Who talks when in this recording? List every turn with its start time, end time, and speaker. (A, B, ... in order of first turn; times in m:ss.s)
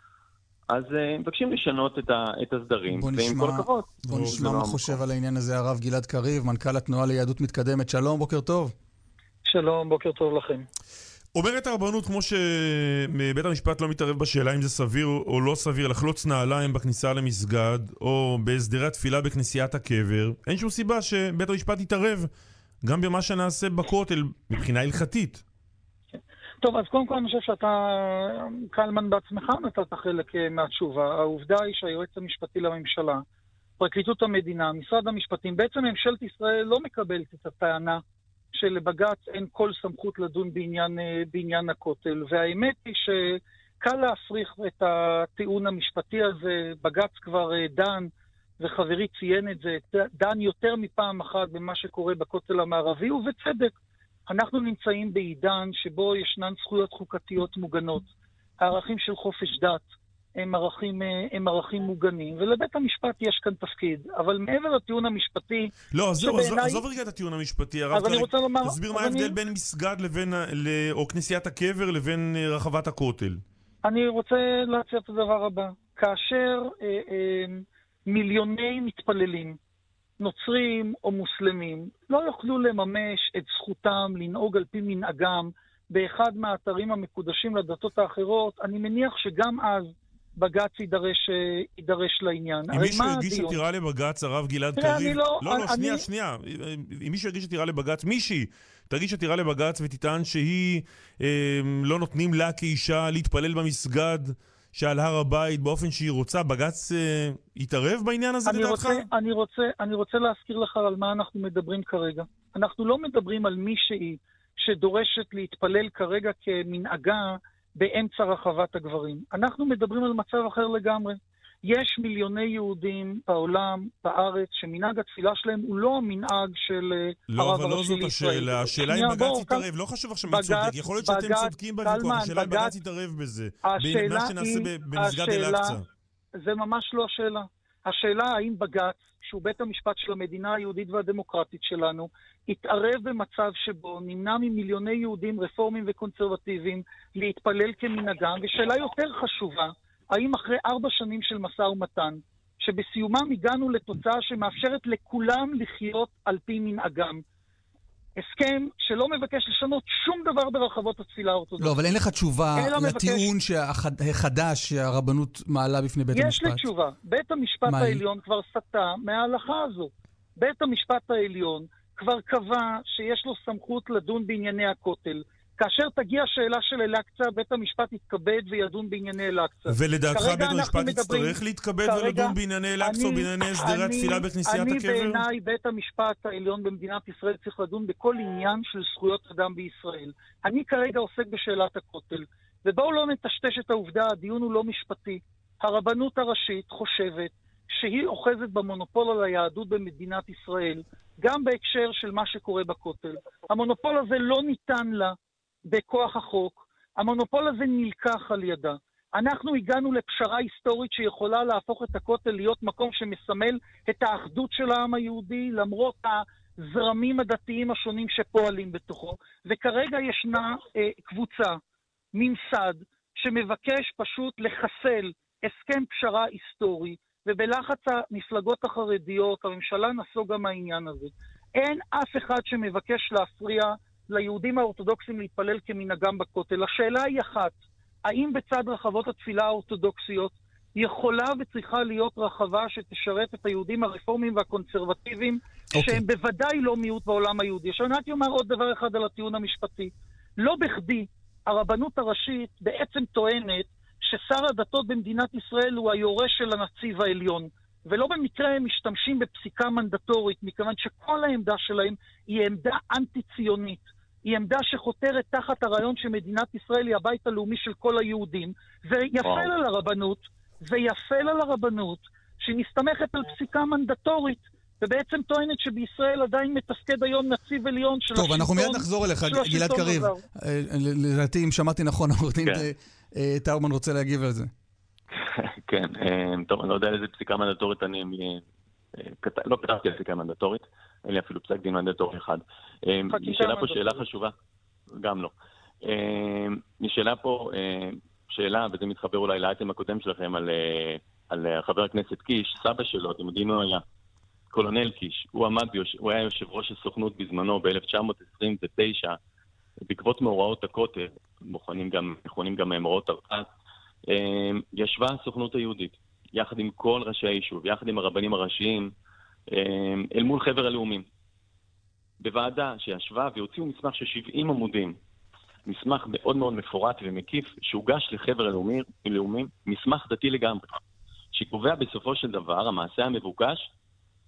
0:00.7-0:05.0 A
0:02.9-0:08.7 B
0:04.0-0:04.4 C
0:09.4-0:10.6 D
0:11.3-0:22.3 C
0:22.8-0:25.4 C
0:26.6-0:33.2 D
0:33.8-0:38.0 D
0:38.5-0:53.7 D
0:54.3-0:58.1 D
0:58.6-0:59.8 D
1:00.4-1:06.8 D
1:05.9-1:13.4 C
1:07.9-1:09.4 D
1:13.8-1:19.6 D
1:20.2-1:33.6 D
1:32.7-1:49.0 C
1:34.8-1:36.0 D
1:48.4-1:57.2 D
1:57.8-2:09.6 D
2:07.3-2:15.8 C
2:10.2-2:12.7 D
2:13.6-2:15.8 D
2:16.4-2:37.2 D
2:38.2-2:41.8 D
2:41.6-2:46.6 B
2:42.6-2:43.3 D
2:46.1-3:25.1 D
2:47.7-2:48.0 B
2:59.7-3:05.2 C
3:25.7-3:41.6 D
3:42.1-3:57.5 D
3:58.0-4:40.2 D
4:05.8-4:06.0 B
4:38.1-4:44.5 B
4:45.2-4:48.4 A
4:49.0-4:54.3 A
4:53.1-4:54.0 D
4:55.0-4:55.3 A
4:55.8-5:03.8 A
5:04.5-5:09.2 A
5:09.9-5:13.5 A
5:14.1-5:18.9 A
5:19.5-5:21.0 A
5:22.2-5:25.0 A
5:25.7-5:30.7 A
5:31.3-5:33.7 A